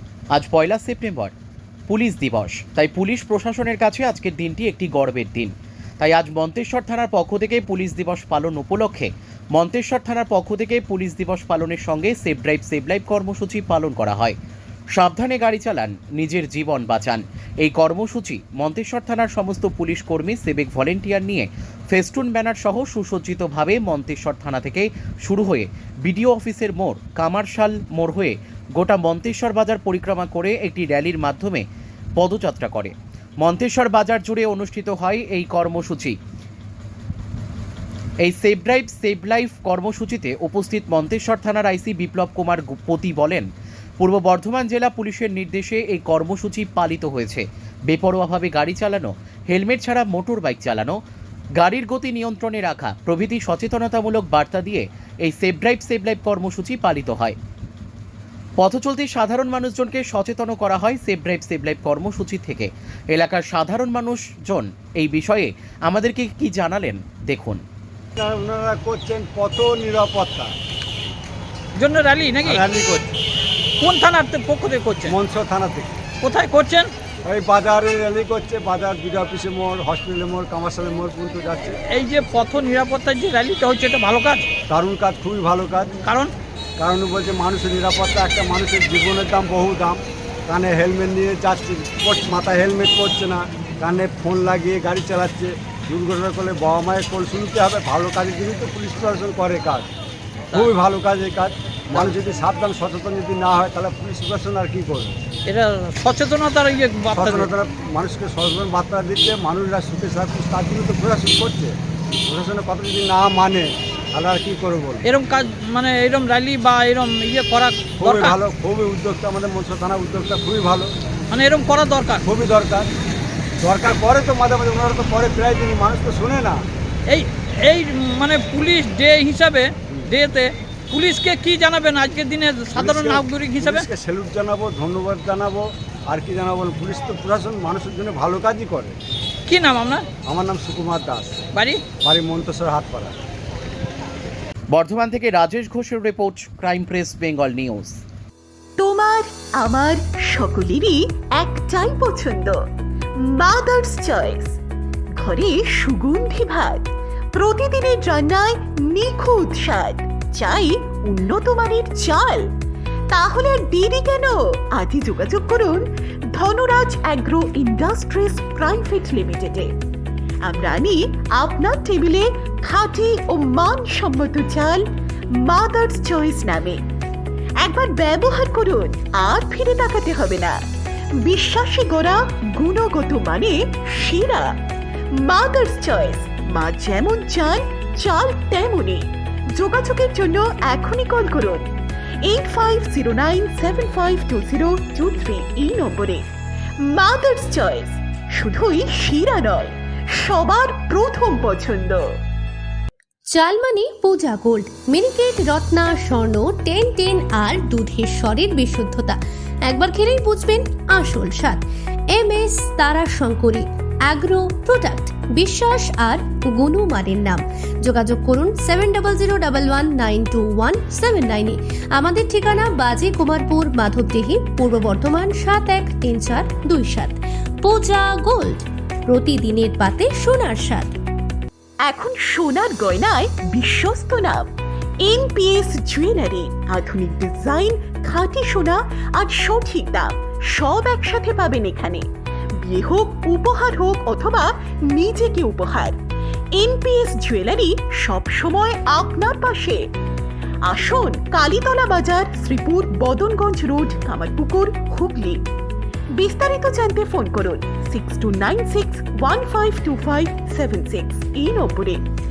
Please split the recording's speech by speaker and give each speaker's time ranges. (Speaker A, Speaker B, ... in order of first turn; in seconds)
Speaker A: 0.3-1.3, 1.9-14.4, 14.9-31.6, 32.2-36.1, 38.2-43.5, 44.0-51.0, 51.6-57.4, 58.6-67.6, 144.7-148.0
Speaker B: 68.2-70.5, 72.4-73.2, 75.0-76.0, 77.2-81.8, 84.7-86.0, 86.8-99.9, 100.5-105.2, 107.1-115.0, 118.0-120.9, 122.2-122.9, 123.6-126.6, 132.7-138.9, 140.2-141.4, 142.0-143.1
Speaker C: 71.8-72.6, 73.8-75.1, 76.2-76.9, 81.9-84.5, 86.0-86.3, 105.5-107.5, 115.0-118.4, 121.3-122.2, 127.1-133.9, 139.5-140.0, 141.6-141.8
Speaker D: 148.8-152.6, 153.3-154.5, 155.2-162.4, 163.1-165.8, 166.3-169.7, 170.4-174.8, 175.4-176.8, 177.6-180.6, 181.2-184.5, 185.2-191.7, 192.2-196.2, 196.9-202.0, 231.9-234.4, 235.0-242.0, 242.6-246.0, 246.6-249.8, 250.7-255.4, 256.2-262.0
Speaker E: 203.3-211.6, 212.1-230.9